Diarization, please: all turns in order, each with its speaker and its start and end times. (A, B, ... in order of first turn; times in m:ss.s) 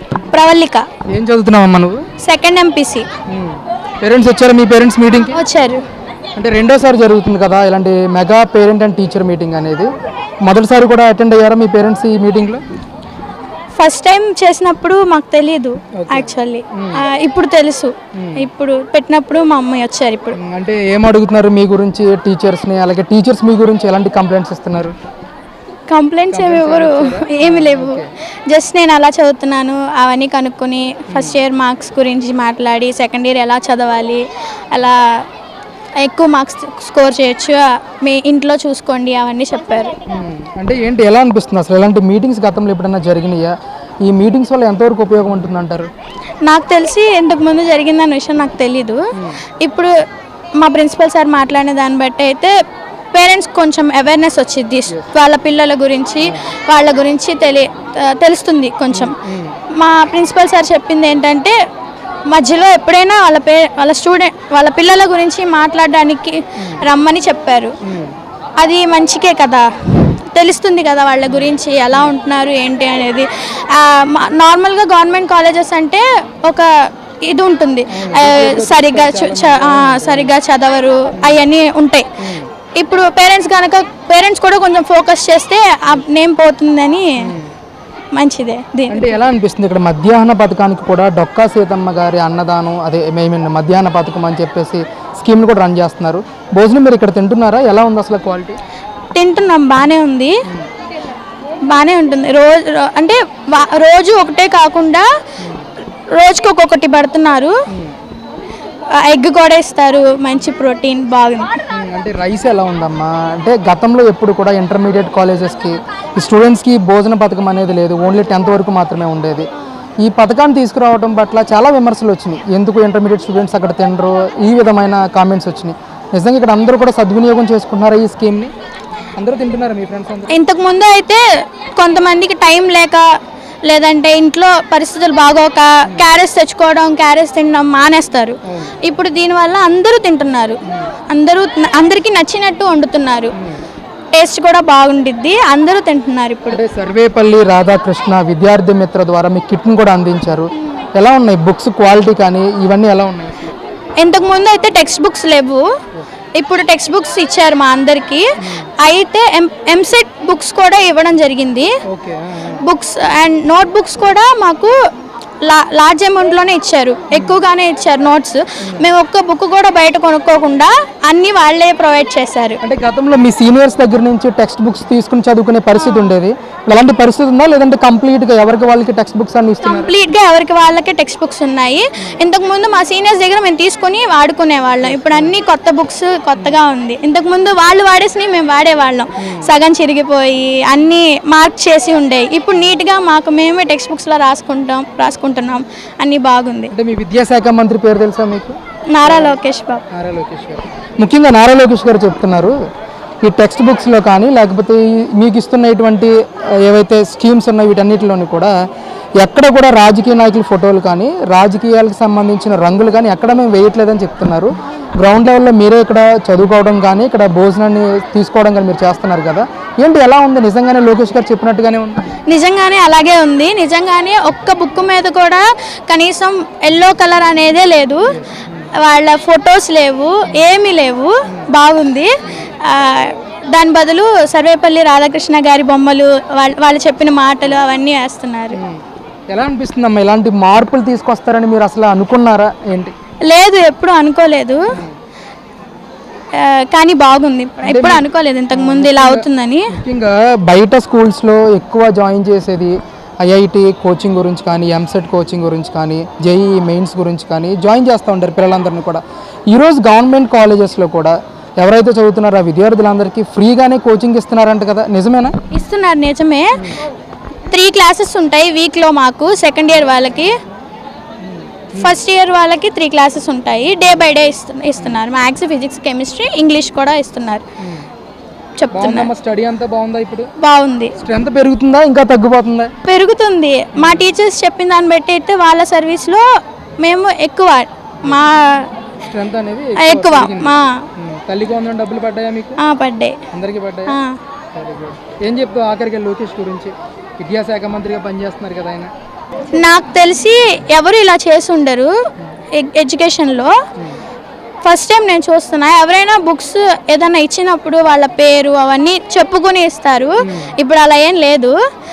0:00.3-0:00.9 A
0:01.1-0:02.0 B
0:02.2-0:03.1 A
0:03.3-0:05.4 B
0:05.3-0:05.8 A
0:06.4-0:09.9 B
0:10.4-0:12.6 B
0:13.8-0:20.4 A
0:16.0-0:17.0 B
0:18.2-0:18.5 B
0:20.4-0:24.9 B
0:25.9-0:35.0 A
0:26.3-0:28.1 B
0:31.1-0:31.4 B
0:36.0-0:39.9 A
0:40.1-0:45.9 B
0:46.4-0:49.0 A
0:49.2-0:49.4 B
0:49.6-0:49.9 A
0:50.6-0:52.5 A
0:53.1-0:59.2 A
0:56.2-0:56.5 B
0:58.9-0:59.6 B
0:59.8-1:01.5 A
1:02.3-1:07.7 A
1:06.6-1:06.8 B
1:07.8-1:08.1 B
1:08.6-1:16.7 A
1:11.3-1:12.1 B
1:17.2-1:22.1 A
1:17.9-1:20.4 B
1:21.2-1:21.4 B
1:22.2-1:22.5 B
1:22.8-1:27.1 A
1:27.2-1:27.5 B
1:28.1-1:29.1 A
1:28.9-1:38.6 B
1:39.1-1:40.4 A
1:41.7-1:45.0 A
1:45.4-1:45.7 B
1:46.1-1:47.5 A
1:48.9-1:51.5 A
1:51.7-1:59.5 B
2:00.0-2:08.5 B
2:09.2-2:10.4 B
2:10.3-2:11.2 A
2:11.8-2:13.0 A
2:13.6-2:23.3 A
2:18.5-2:18.8 B
2:23.4-2:23.6 B
2:24.1-2:26.6 A
2:26.5-2:33.6 B
2:34.0-2:35.6 A
2:36.4-2:38.2 A
2:38.4-2:38.7 B
2:38.8-2:41.7 A
2:41.9-2:42.6 B
2:42.6-2:44.7 A
2:45.4-2:52.6 A
2:47.1-2:47.4 B
2:48.6-2:48.9 B
2:52.6-2:59.9 B
2:55.8-2:56.1 A
2:59.6-3:16.7 A
3:04.8-3:05.4 B
3:09.2-3:09.5 B
3:12.5-3:12.8 B
3:16.7-3:19.4 B
3:18.9-3:19.8 A
3:19.9-3:22.6 B
3:23.2-3:28.5 B
3:29.2-3:42.0 B
3:42.3-3:48.1 A
3:48.1-3:48.7 B
3:48.8-3:58.6 A
3:58.5-4:02.9 B
4:03.3-4:04.6 A
4:06.4-4:09.7 A
4:07.6-4:25.3 B
4:25.5-4:26.7 A
4:27.5-4:30.4 A
4:31.2-4:32.0 B
4:31.8-4:37.4 A
4:34.8-4:35.0 B
4:37.6-4:37.9 B
4:38.6-4:39.1 A
4:38.7-4:40.3 B
4:40.4-4:40.9 A
4:41.0-4:42.7 B
4:42.8-4:46.2 A
4:43.8-4:44.1 B
4:46.8-4:48.7 A
4:49.0-4:52.6 B
4:49.8-4:50.8 A
4:52.6-4:53.2 A
4:53.3-4:54.0 B
4:53.9-4:54.2 A
4:54.5-4:58.9 B
4:59.6-5:01.9 A
5:02.6-5:03.5 A
5:04.6-5:11.5 A
5:10.2-5:10.5 B